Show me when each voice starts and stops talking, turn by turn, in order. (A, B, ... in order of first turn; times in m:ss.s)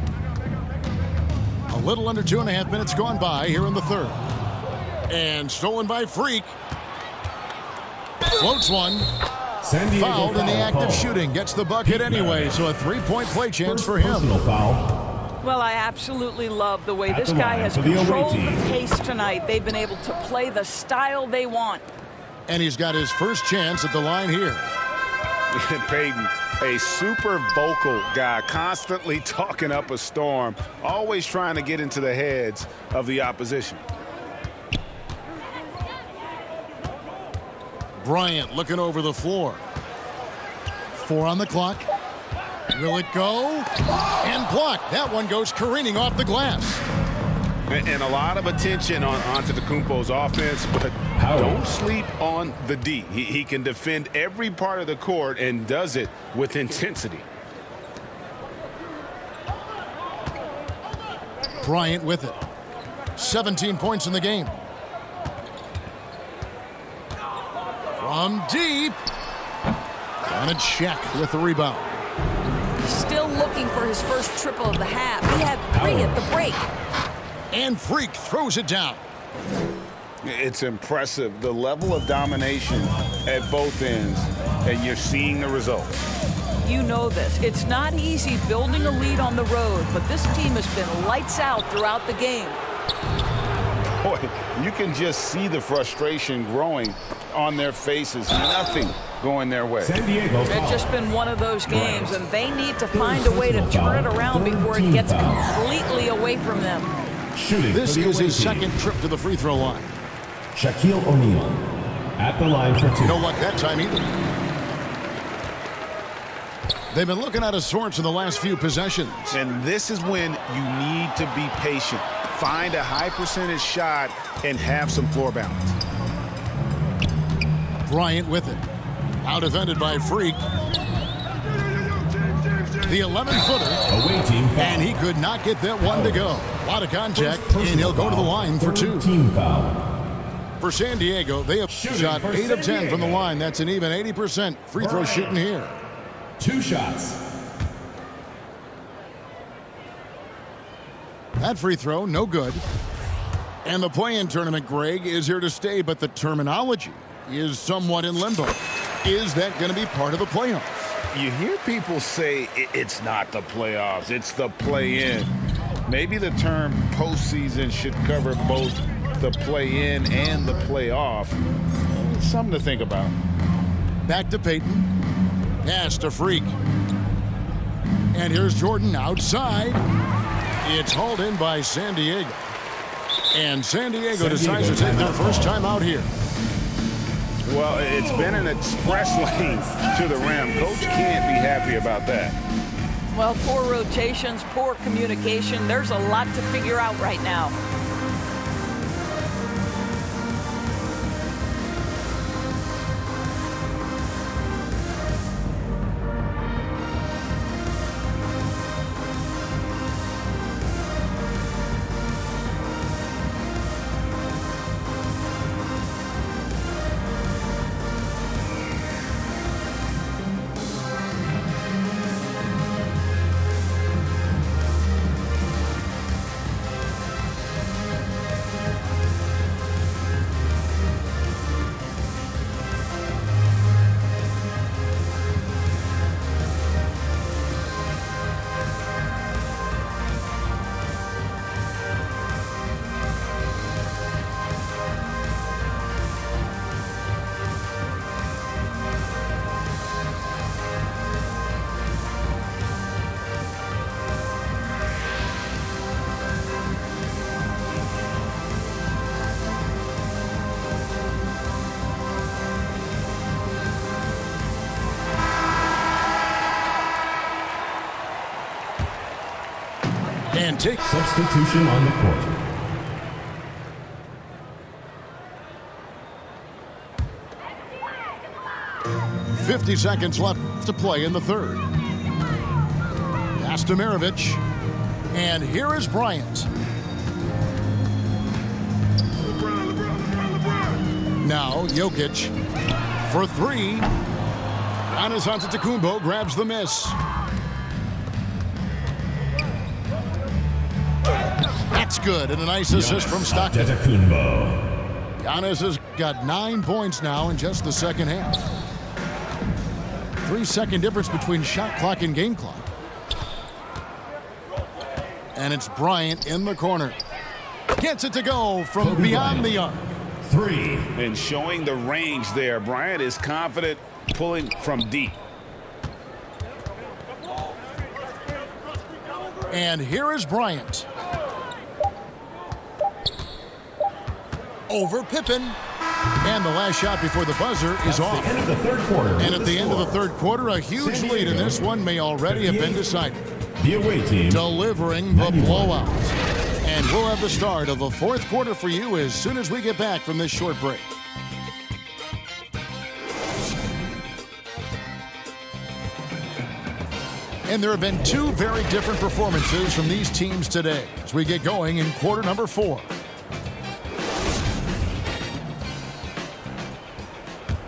0:01.7-0:04.2 A
0:05.1-0:06.5 A
0:08.3-0:09.1 A
0:09.6-0:11.1 B
0:10.0-0:14.3 A
0:11.8-0:12.6 B
0:13.6-0:14.9 B
0:15.4-0:21.8 C
0:17.1-0:18.7 B
0:22.5-0:24.7 A
0:25.5-0:33.8 D
0:38.0-0:39.6 A
0:41.0-0:41.9 A
0:42.7-0:43.7 A
0:44.2-0:46.8 A
0:47.7-0:57.3 D
0:51.2-0:51.6 B
1:01.6-1:02.4 A
1:03.2-1:04.6 A
1:08.0-1:09.0 A
1:10.3-1:11.9 A
1:12.8-1:16.6 C
1:15.7-1:16.3 B
1:17.5-1:19.0 A
1:20.2-1:26.0 D
1:26.6-1:32.6 C
1:34.0-1:40.0 D
1:39.8-1:40.9 B
1:40.5-1:46.9 C
1:41.7-1:42.2 B
1:42.9-1:45.5 B
1:47.3-1:48.7 B
1:47.7-1:49.9 A
1:50.5-1:51.6 B
1:52.2-1:53.2 B
1:53.0-1:54.1 A
1:56.9-1:59.4 A
1:59.3-2:05.8 D
2:07.9-2:08.6 A
2:09.2-2:10.4 A
2:12.8-2:13.9 A
2:13.9-2:14.9 B
2:14.6-2:19.1 A
2:15.8-2:16.4 B
2:17.2-2:19.8 B
2:20.6-2:25.8 A
2:21.7-2:23.3 B
2:24.8-2:25.4 B
2:26.4-2:27.2 B
2:31.4-2:32.6 A
2:33.6-2:40.7 A
2:41.1-2:45.3 D
2:45.9-2:53.2 D
2:54.1-2:54.9 A
2:55.6-2:56.6 A
2:58.1-2:59.8 A
3:00.6-3:02.5 A
3:03.3-3:06.1 A
3:04.1-3:05.5 B
3:07.4-3:12.4 D
3:08.0-3:10.9 B
3:13.1-3:17.5 C
4:30.3-4:30.8 A
4:30.8-4:32.4 B
4:39.3-4:41.7 A
4:43.3-4:44.4 A
4:45.1-4:46.5 A
4:51.2-4:52.3 A
4:53.1-4:53.9 A
4:54.9-4:57.0 A
5:01.7-5:03.8 A
5:02.7-5:04.6 B
5:05.2-5:08.5 A
5:10.2-5:12.7 A
5:15.4-5:17.0 A
5:17.8-5:20.0 A
5:18.8-5:19.5 B
5:20.2-5:20.9 B
5:21.0-5:25.2 D
5:29.5-5:30.9 A
5:34.7-5:35.6 A
5:36.2-5:38.4 A
5:37.8-5:39.9 B
5:39.2-5:43.2 A
5:40.8-5:41.6 B
5:42.3-5:42.9 B
5:43.6-5:44.4 B
5:44.3-5:50.9 A
5:45.1-5:45.7 B
5:57.5-6:02.9 A